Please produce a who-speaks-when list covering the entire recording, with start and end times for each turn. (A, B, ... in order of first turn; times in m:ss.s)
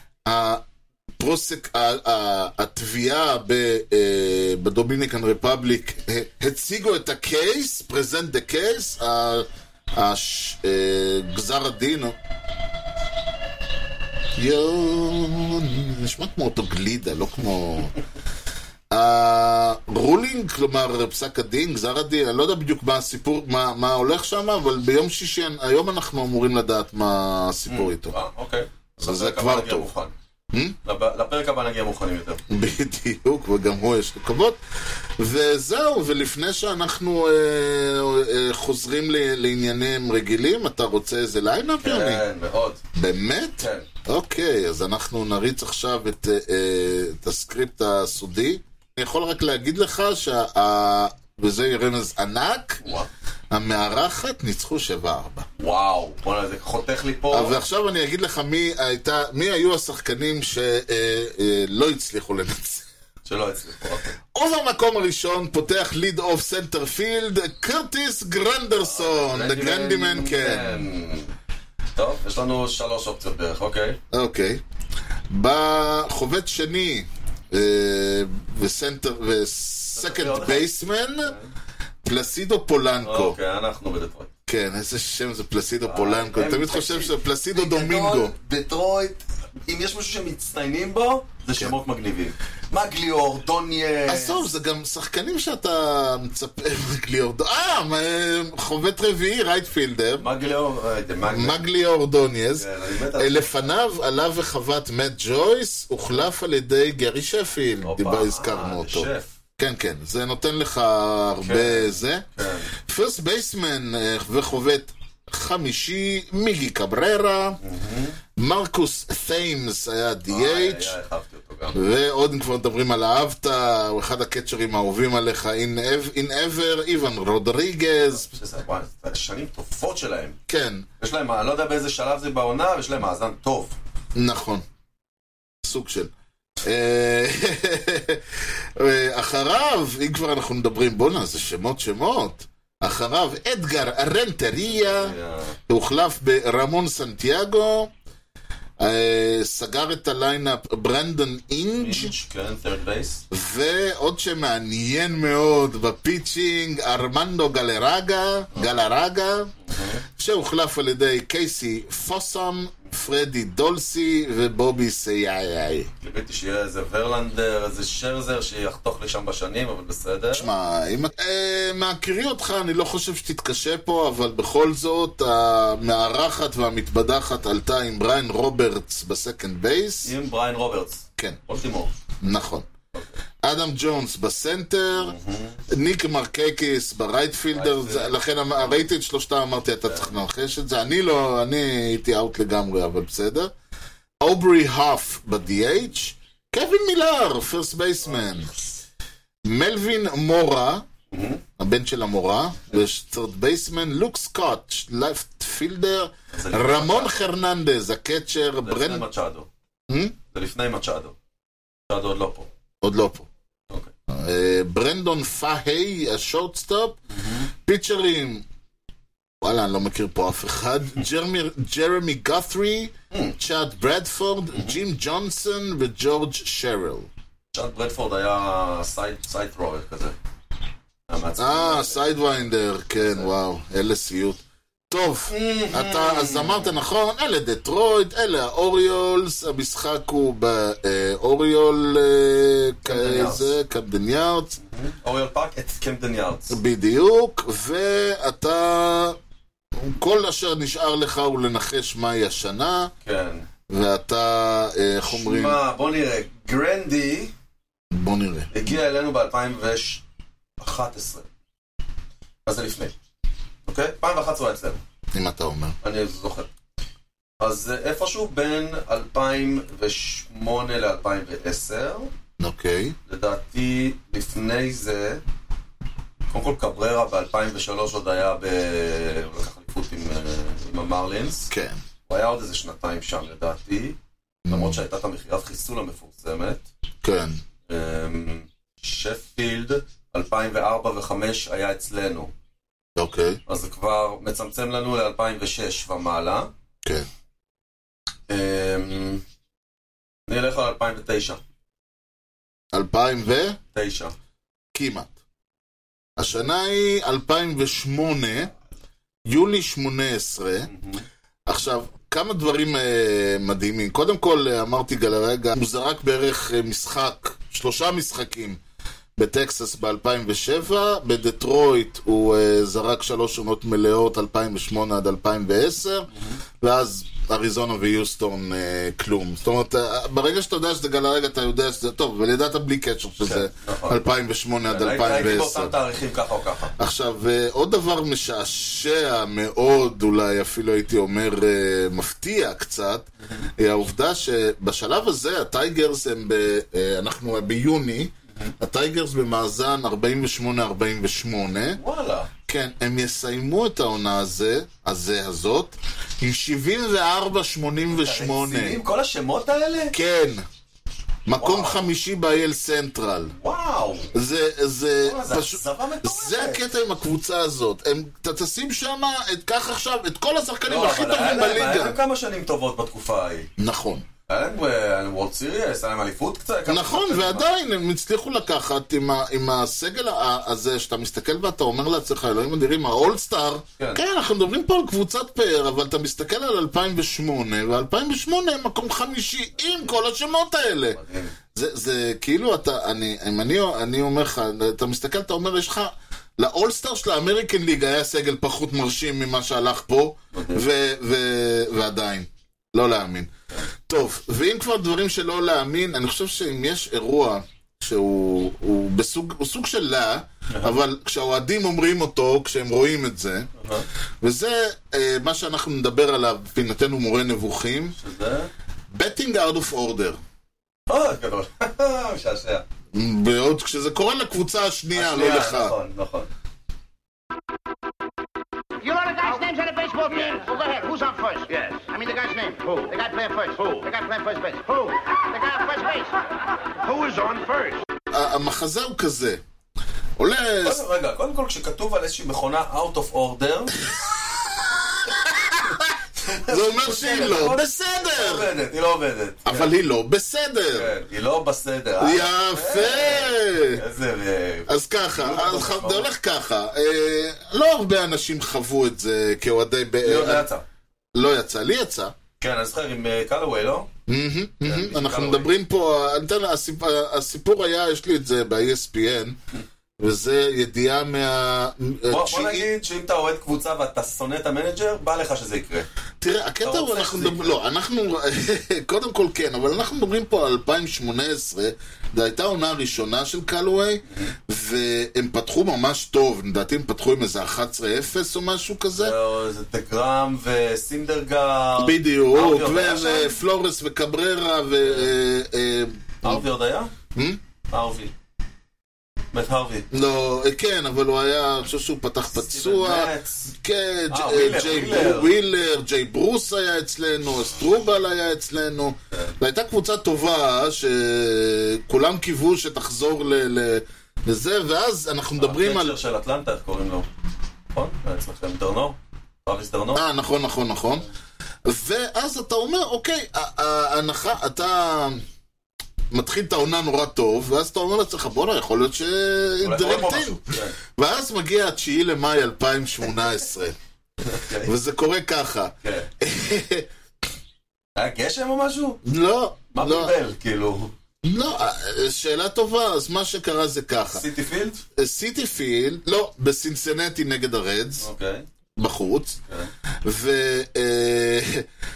0:00.2-0:00.6 A
0:01.2-0:12.2 A
0:14.4-0:17.9 A
0:18.9-0:28.2 A
0:27.7-0:30.1 B
0:29.0-0:29.9 A
0:30.8-0:32.4 B
0:32.5-0:34.6 A
0:35.2-0:42.2 A
0:41.8-0:42.8 B
0:43.0-0:52.8 A
0:43.6-0:43.9 B
0:52.8-0:53.1 B
0:53.5-0:55.5 A
0:55.6-0:57.6 B
0:57.3-1:02.9 A
1:03.2-1:04.2 B
1:04.3-1:10.9 A
1:08.8-1:11.3 B
1:12.0-1:14.0 B
1:14.1-1:14.6 A
1:15.3-1:21.4 A
1:20.0-1:20.7 B
1:21.2-1:21.5 B
1:22.0-1:23.4 A
1:23.0-1:24.3 B
1:24.5-1:28.3 A
1:25.9-1:34.5 B
1:34.1-1:40.3 A
1:40.2-1:41.6 B
1:41.3-1:57.6 A
1:42.6-1:43.7 B
1:47.8-1:49.3 B
1:51.4-1:52.7 B
1:57.6-1:58.2 B
1:58.4-2:01.0 A
2:00.3-2:01.8 B
2:01.7-2:08.3 A
2:08.2-2:10.4 B
2:10.5-2:10.8 A
2:11.0-2:13.8 B
2:14.2-2:14.6 A
2:15.6-2:16.1 A
2:16.6-2:25.2 A
2:24.6-2:25.6 B
2:25.7-2:27.9 A
2:28.8-2:32.1 A
2:31.8-2:33.2 B
2:33.3-2:39.5 A
2:39.6-2:40.0 B
2:40.2-2:45.9 A
2:46.0-2:50.5 B
2:50.3-3:00.1 A
3:00.0-3:01.9 B
3:02.2-3:02.7 A
3:03.4-3:05.2 A
3:04.9-3:05.6 B
3:05.7-3:13.5 A
3:07.5-3:08.8 B
3:14.2-3:18.5 A
3:19.4-3:20.8 A
3:21.1-3:21.4 B
3:21.6-3:29.0 A
3:26.3-3:27.2 B
3:28.6-3:29.5 B
3:29.9-3:30.2 A
3:30.3-3:31.2 B
3:31.9-3:32.5 B
3:32.8-3:33.3 A
3:34.1-3:37.0 A
3:37.1-3:37.5 B
3:37.5-3:38.4 A
3:39.4-3:47.1 A
3:47.5-3:50.2 B
3:51.1-3:52.1 B
3:51.4-4:04.6 A
3:53.0-3:53.3 B
3:55.3-3:56.8 B
4:02.8-4:03.5 B
4:04.6-4:06.6 B
4:06.5-4:09.2 A
4:09.8-4:12.9 A
4:13.0-4:13.4 B
4:13.7-4:15.6 A
4:15.1-4:17.3 B
4:17.9-4:18.5 A
4:18.5-4:20.0 B
4:20.6-4:21.3 B
4:22.5-4:23.0 B
4:23.7-4:24.8 B
4:25.1-4:25.8 A
4:25.8-4:26.5 B
4:27.4-4:32.1 B
4:32.4-4:33.0 A
4:33.1-4:35.2 B
4:36.3-4:41.5 B
4:41.5-4:41.8 A
4:42.1-4:44.0 B
4:44.5-4:44.8 A
4:44.5-4:46.7 B
4:47.0-4:47.4 A
4:47.7-4:52.3 B
4:53.0-4:53.4 A
4:53.5-4:56.5 B
4:58.3-4:59.2 B
5:00.3-5:01.4 B
5:02.7-5:03.6 A
5:03.7-5:04.1 B
5:04.7-5:05.1 A
5:06.2-5:08.5 A
5:09.3-5:10.7 A
5:10.7-5:11.0 B
5:11.5-5:18.6 A
5:19.2-5:26.1 A
5:26.1-5:26.4 B
5:26.6-5:35.8 A
5:33.2-5:34.0 B
5:34.7-5:36.7 B
5:36.8-5:51.8 A
5:51.8-5:52.3 B
5:52.5-5:58.8 A
5:57.9-6:00.0 B
5:59.9-6:00.4 A
6:01.3-6:03.3 A
6:01.4-6:01.8 B
6:03.4-6:04.1 B
6:04.1-6:12.0 A
6:05.0-6:06.7 B
6:10.7-6:13.5 B
6:13.6-6:14.1 A
6:14.3-6:17.5 B
6:16.7-6:31.0 A
6:31.0-6:31.4 B
6:31.5-6:43.3 A
6:40.3-6:40.7 B
6:43.9-6:53.5 A
6:50.5-6:50.8 B
6:53.6-6:53.9 B
6:54.2-6:58.0 A
6:58.0-6:58.5 B
6:58.9-7:00.2 A
7:00.9-7:02.6 B
7:02.9-7:05.7 A
7:04.9-7:06.3 B
7:08.8-7:16.2 C
7:16.9-7:17.8 C
7:18.1-7:19.4 A
7:20.2-7:20.8 A
7:20.6-7:23.8 B
7:23.9-7:28.5 A
7:26.2-7:29.7 B
7:29.5-7:30.9 A
7:30.7-7:36.1 B
7:32.0-7:33.8 A
7:34.7-7:40.5 A
7:40.0-7:40.6 B
7:41.1-7:42.1 A
7:42.4-7:43.9 B
7:44.1-7:49.4 A
7:44.6-7:45.5 B
7:50.0-7:52.7 A
7:52.1-7:55.9 B
7:56.2-8:09.2 A
7:56.6-7:57.6 B
8:04.1-8:04.4 B
8:08.9-8:13.4 B
8:11.8-8:16.4 A
8:14.8-8:15.1 B
8:16.2-8:16.9 B
8:17.2-8:17.4 A
8:17.7-8:18.1 B
8:19.3-8:19.9 B
8:19.9-8:36.0 A
8:22.3-8:23.5 B
8:24.1-8:25.3 B
8:35.4-8:37.1 B
8:37.7-8:40.0 B
8:39.9-8:41.1 A
8:41.6-8:45.2 A
8:46.1-8:53.8 A
8:49.6-8:50.8 B
8:54.3-8:54.7 B
8:54.6-8:56.9 A
8:55.8-8:56.1 B
8:58.0-8:59.0 B
8:59.0-9:00.1 A
8:59.7-9:00.9 B
9:01.2-9:04.2 A
9:04.1-9:04.8 B
9:05.0-9:08.1 A
9:08.0-9:08.5 B
9:08.8-9:09.4 A
9:10.0-9:11.7 A